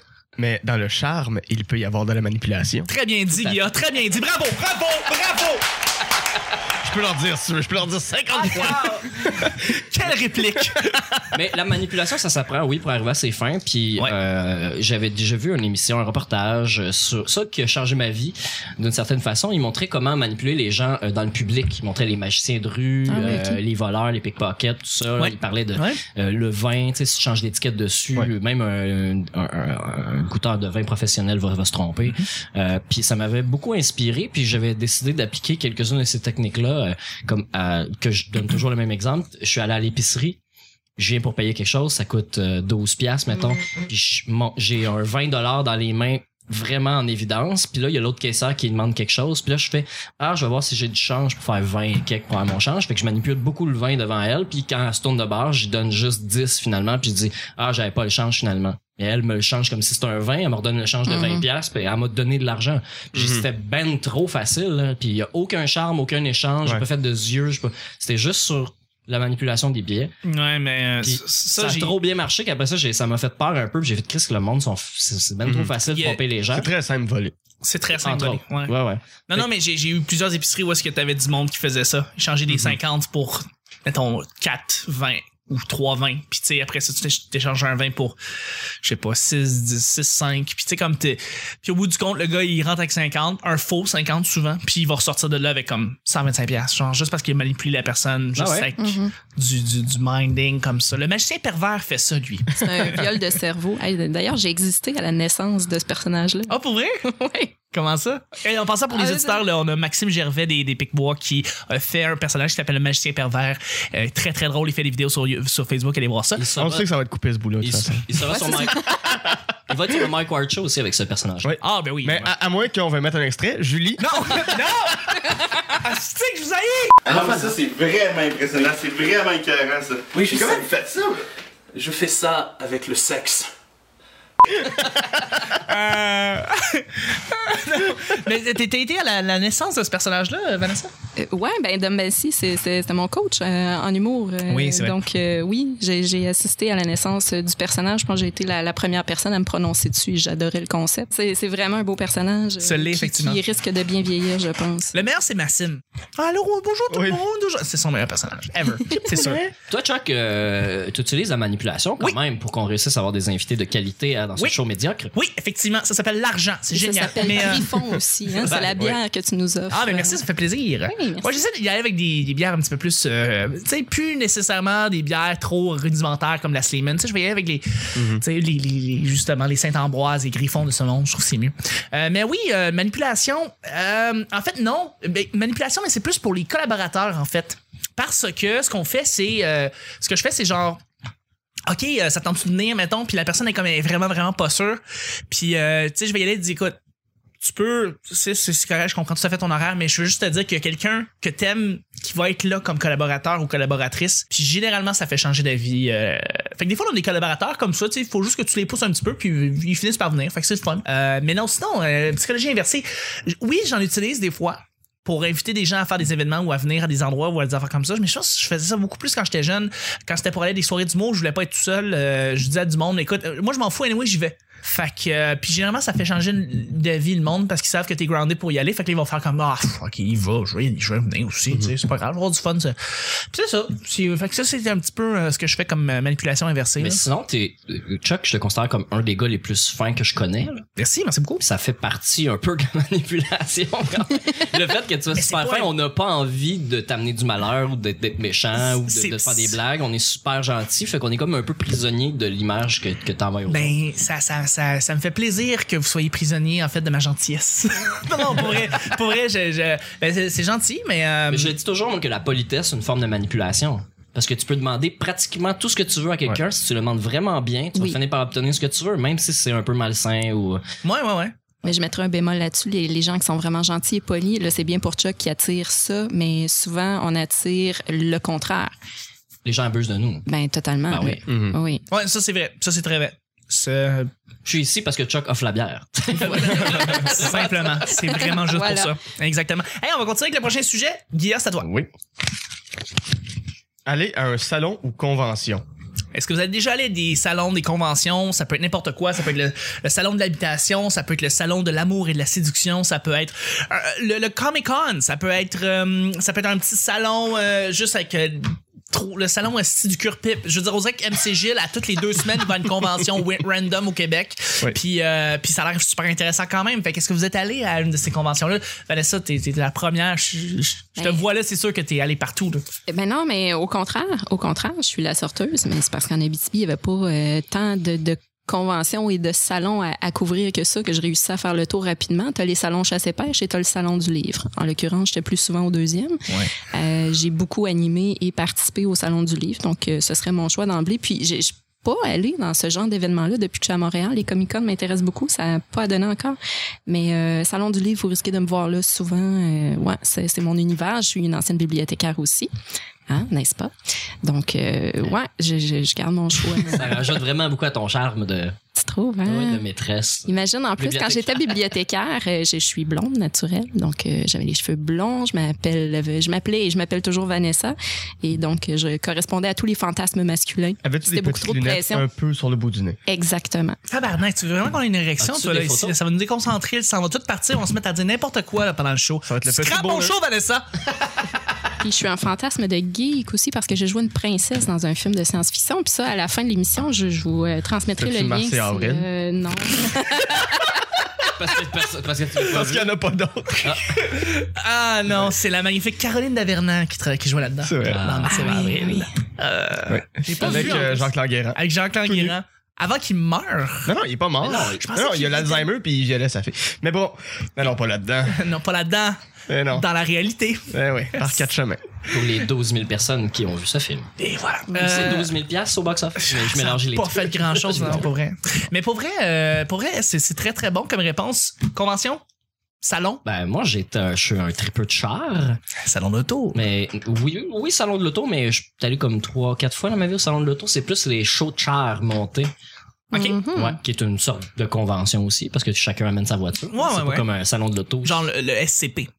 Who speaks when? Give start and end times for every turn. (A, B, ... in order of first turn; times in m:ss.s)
0:00.4-0:02.9 A
0:02.9-0:05.6 B
0:03.4-0:03.7 C
0:06.8-0:09.8 A
0:08.5-0:08.9 C
0:08.5-0:09.0 B
0:09.7-0:11.0 B
0:11.3-0:40.4 C
0:23.1-0:23.6 D
0:25.2-0:26.0 B
0:41.0-1:10.1 C
1:01.1-1:01.4 D
1:03.1-1:03.4 A
1:10.2-1:11.9 B
1:11.0-1:16.7 C
1:15.4-1:15.7 A
1:15.9-1:16.2 B
1:16.5-1:17.3 A
1:17.6-1:18.7 B
1:18.0-1:19.5 C
1:19.3-1:28.2 B
1:28.8-1:43.1 B
1:38.4-1:38.7 C
1:38.8-1:39.1 D
1:42.5-1:47.5 D
1:46.5-1:47.0 B
1:47.7-1:56.4 B
1:48.9-1:49.4 D
1:56.4-1:56.9 C
1:56.6-1:58.2 A
1:57.6-2:01.6 C
1:58.2-1:59.1 D
2:01.4-2:04.5 A
2:01.6-2:02.3 B
2:04.0-2:07.2 B
2:07.0-2:11.2 E
2:10.2-2:10.6 B
2:11.7-2:13.5 B
2:15.0-2:20.9 B
2:21.2-2:35.0 D
2:24.5-2:25.0 B
2:32.6-2:33.4 B
2:34.9-2:39.5 B
2:36.9-2:37.2 A
2:38.9-2:39.3 D
2:39.7-2:45.1 C
2:45.1-2:47.7 B
2:46.7-2:50.2 D
2:48.4-2:48.8 B
2:49.7-3:10.8 B
2:50.9-2:51.4 D
2:58.0-2:58.2 A
3:11.7-3:16.8 B
3:17.4-3:57.0 B
3:56.8-4:00.7 C
4:00.8-4:01.4 B
4:01.4-4:13.7 C
4:05.1-4:05.7 B
4:08.6-4:09.6 B
4:13.5-4:21.6 B
4:21.3-4:30.6 C
4:30.8-4:31.3 B
4:31.6-4:38.7 D
4:39.4-4:40.3 C
4:40.3-4:41.8 D
4:40.9-4:41.2 C
4:41.3-4:41.6 A
4:41.9-4:44.1 B
4:44.4-4:47.4 C
4:46.1-4:51.7 B
4:47.8-4:48.9 D
4:53.9-4:55.6 A
4:56.1-5:22.6 B
5:21.0-5:21.2 D
5:22.9-5:52.5 D
5:53.1-5:53.7 D
5:54.2-5:57.0 D
5:56.7-5:58.6 C
5:58.7-5:59.6 D
5:59.2-6:01.6 C
6:00.3-6:12.0 D
6:10.8-6:13.0 A
6:13.1-6:13.8 D
6:13.9-6:20.7 B
6:15.2-6:16.0 C
6:19.2-6:20.1 A
6:21.8-6:30.7 D
6:28.0-6:29.1 A
6:31.3-6:33.0 C
6:32.5-6:33.8 A
6:33.6-6:33.9 C
6:34.0-6:43.9 B
6:37.6-6:38.1 A
6:37.8-6:38.6 C
6:38.3-6:39.1 D
6:39.9-6:42.4 A
6:43.9-6:48.4 A
6:44.4-6:44.8 C
6:44.5-6:45.7 B
6:48.3-6:49.2 B
6:49.5-6:49.9 A
6:49.7-6:51.4 B
6:50.7-6:51.8 A
6:52.1-6:54.1 C
6:54.2-6:55.3 B
6:54.7-6:55.1 D
6:54.8-6:58.1 C
6:56.2-7:02.2 B
7:02.8-7:03.2 B
7:03.2-7:05.6 C
7:05.8-7:06.6 B
7:06.5-7:12.5 C
7:13.1-7:13.8 D
7:13.1-7:13.4 B
7:13.5-7:18.2 C
7:16.7-7:17.3 B
7:18.0-7:19.1 B